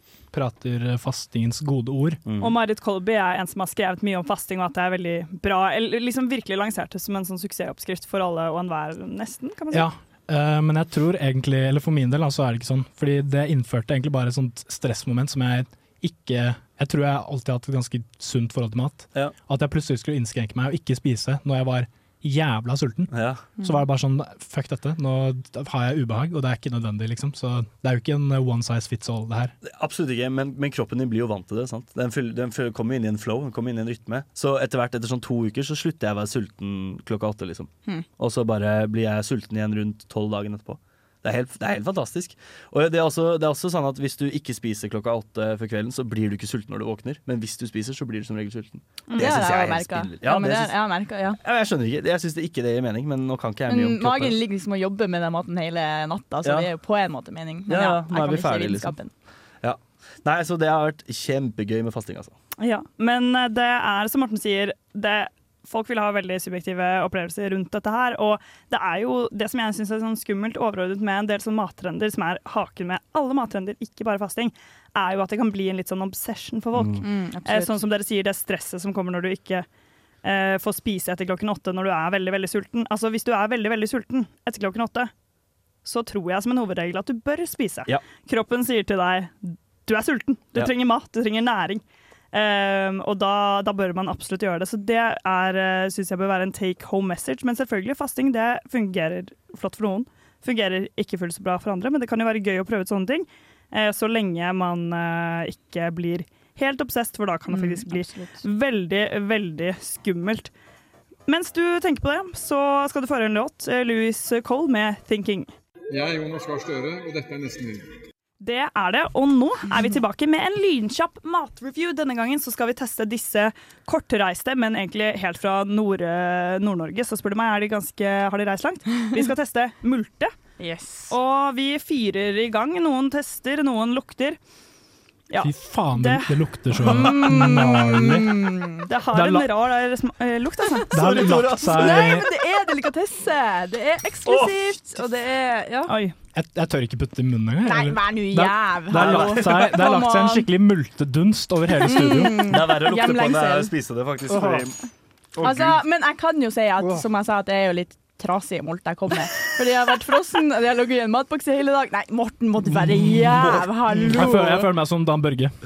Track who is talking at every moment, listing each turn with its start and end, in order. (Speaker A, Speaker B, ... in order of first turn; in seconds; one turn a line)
Speaker A: 0.3-2.2
Speaker B: 2.2-2.6
Speaker C: 2.4-9.9
Speaker A: 9.7-29.6
Speaker B: 23.1-23.4
Speaker B: 29.6-50.8
Speaker C: 49.1-49.4
Speaker D: 49.2-51.4
Speaker B: 51.4-54.4
Speaker D: 53.7-59.1
Speaker B: 56.4-56.7
Speaker B: 57.7-59.0
Speaker B: 59.6-62.3
Speaker C: 62.6-79.7
Speaker B: 76.8-77.0
Speaker D: 77.0-77.8
Speaker C: 80.2-85.1
Speaker C: 85.8-110.5
Speaker D: 107.5-108.5
Speaker C: 111.3-115.5
Speaker E: 115.9-117.9
Speaker C: 118.4-130.3
Speaker D: 130.6-131.2
Speaker C: 131.1-134.4
Speaker C: 135.3-136.4
Speaker A: 135.4-138.5
Speaker D: 136.9-138.9
Speaker C: 138.9-140.9
Speaker A: 139.1-139.5
Speaker B: 140.9-142.2
Speaker A: 140.9-142.2
Speaker D: 141.6-145.9
Speaker B: 144.2-144.8
Speaker C: 145.9-146.1
Speaker A: 146.3-152.6
Speaker D: 147.7-150.5
Speaker B: 148.9-149.8
Speaker D: 151.8-153.7
Speaker B: 152.5-154.8
Speaker B: 155.4-155.8
Speaker D: 155.4-164.7
Speaker A: 163.0-165.5